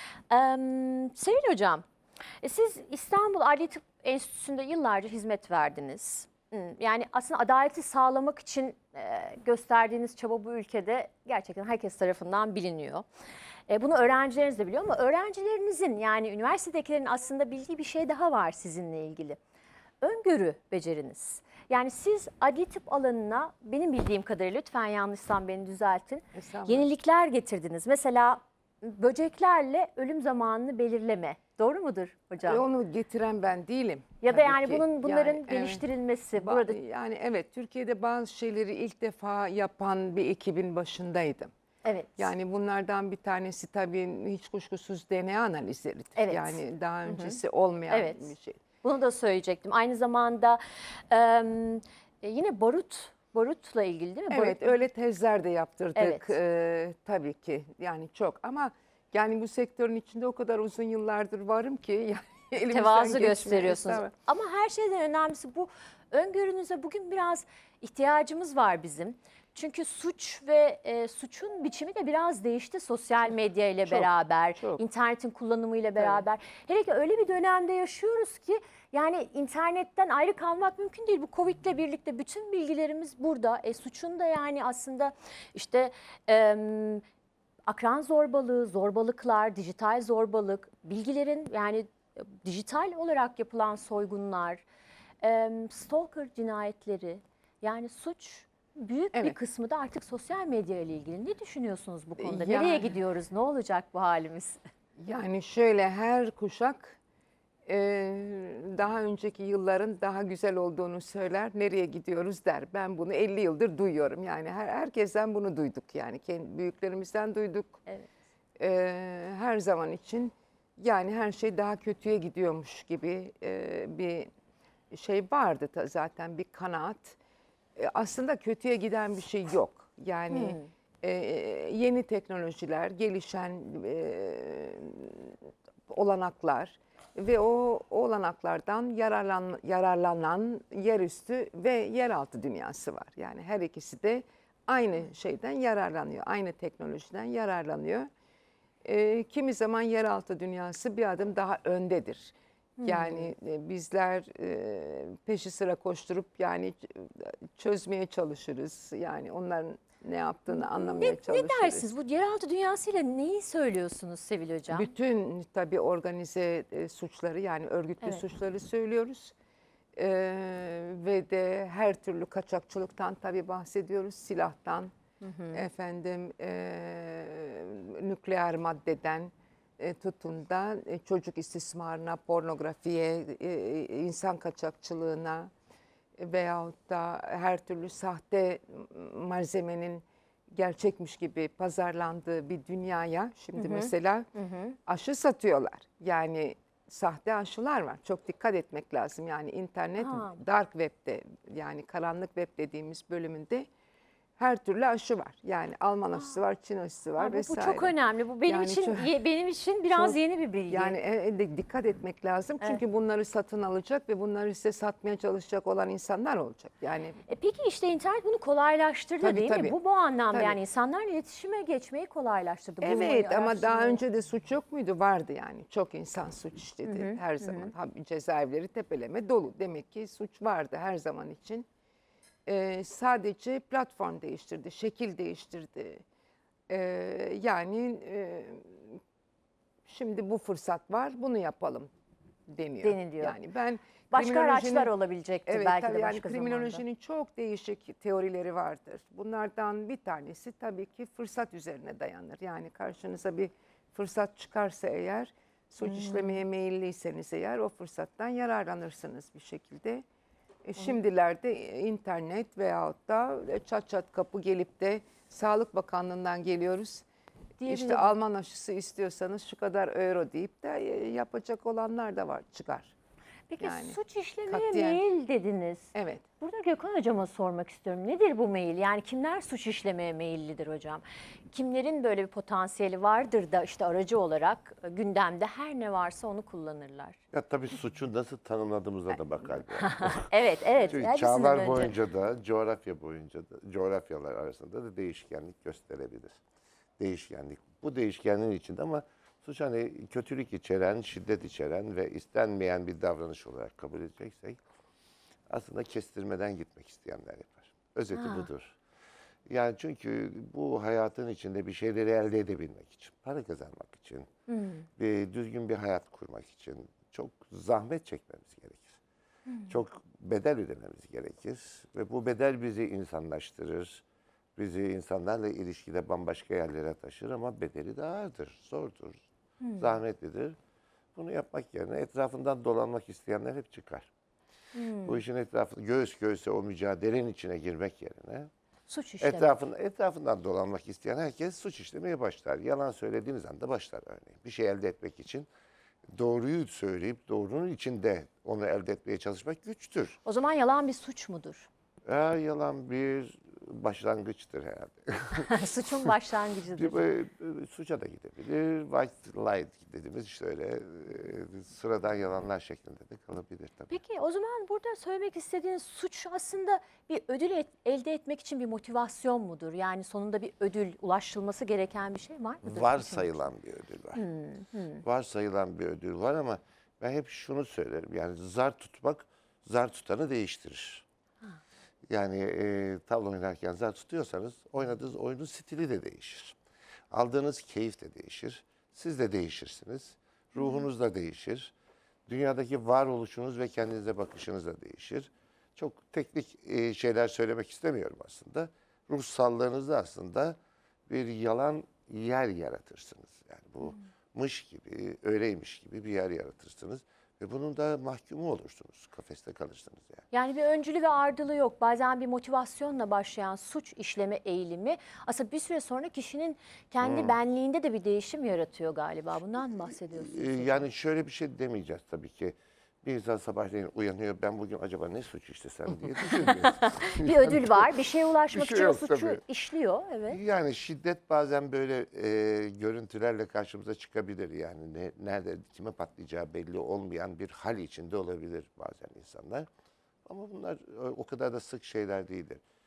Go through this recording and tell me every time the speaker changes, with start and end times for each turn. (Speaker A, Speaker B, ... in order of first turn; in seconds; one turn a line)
Speaker A: 0.3-1.9
Speaker A: 2.4-13.1
Speaker A: 13.7-19.4
Speaker A: 20.0-32.6
Speaker B: 26.3-26.9
Speaker B: 32.4-35.8
Speaker A: 34.2-36.8
Speaker B: 36.4-41.5
Speaker A: 41.8-42.3
Speaker B: 42.2-48.6
Speaker A: 46.2-47.4
Speaker A: 47.9-54.8
Speaker B: 54.3-64.1
Speaker A: 56.0-56.3
Speaker A: 62.7-87.0
Speaker B: 73.9-74.8
Speaker B: 76.0-76.2
Speaker A: 87.7-94.7
Speaker A: 95.2-104.6
Speaker B: 102.2-103.0
Speaker B: 105.0-107.0
Speaker B: 107.7-117.8
Speaker B: 118.6-124.3
Speaker B: 124.9-127.2
Speaker B: 127.8-148.1
Speaker A: 130.3-130.7
Speaker B: 148.8-161.9
Speaker A: 152.8-153.3
Speaker A: 160.5-164.9
Speaker B: 164.7-169.3
Speaker B: 169.9-174.9
Speaker A: 175.2-175.7
Speaker B: 175.5-185.5
Speaker B: 186.2-194.3
Speaker A: 193.6-194.8
Speaker B: 194.9-203.7
Speaker A: 200.0-200.4
Speaker B: 204.4-209.1
Speaker A: 207.2-211.0
Speaker B: 209.9-210.2
Speaker B: 210.7-217.2
Speaker A: 217.3-224.0
Speaker B: 219.2-219.8
Speaker B: 220.3-220.6
Speaker B: 222.8-231.7
Speaker A: 226.8-227.7
Speaker B: 232.5-236.0
Speaker B: 236.7-239.0
Speaker B: 239.9-241.9
Speaker B: 242.5-244.9
Speaker A: 242.8-243.4
Speaker A: 244.1-246.8
Speaker B: 245.5-260.0
Speaker A: 255.8-256.4
Speaker B: 260.7-267.1
Speaker A: 267.6-268.1
Speaker B: 267.7-272.9
Speaker A: 273.5-287.2
Speaker B: 273.6-275.0
Speaker B: 275.9-276.3
Speaker C: 287.3-290.3
Speaker A: 289.8-292.0
Speaker C: 290.9-296.4
Speaker C: 297.0-304.6
Speaker C: 305.5-308.8
Speaker A: 308.1-308.5
Speaker C: 309.5-314.3
Speaker A: 314.5-314.9
Speaker C: 315.0-319.0
Speaker A: 319.5-319.8
Speaker C: 319.7-324.0
Speaker C: 324.6-329.2
Speaker A: 329.6-330.0
Speaker C: 329.8-330.6
Speaker C: 331.1-334.1
Speaker A: 334.8-335.2
Speaker C: 335.0-338.5
Speaker A: 338.9-339.6
Speaker C: 339.2-345.5
Speaker C: 346.1-350.2
Speaker A: 350.2-351.7
Speaker C: 352.1-356.1
Speaker A: 355.4-357.1
Speaker C: 356.8-364.0
Speaker A: 363.9-373.5
Speaker C: 372.6-374.2
Speaker A: 374.2-375.0
Speaker C: 375.0-381.1
Speaker C: 382.1-386.6
Speaker C: 387.1-391.7
Speaker A: 390.6-390.9
Speaker C: 392.3-410.2
Speaker A: 410.3-420.9
Speaker C: 417.0-417.4
Speaker C: 420.1-427.8
Speaker A: 426.4-430.4
Speaker C: 428.5-429.4
Speaker C: 430.3-439.7
Speaker C: 440.3-442.6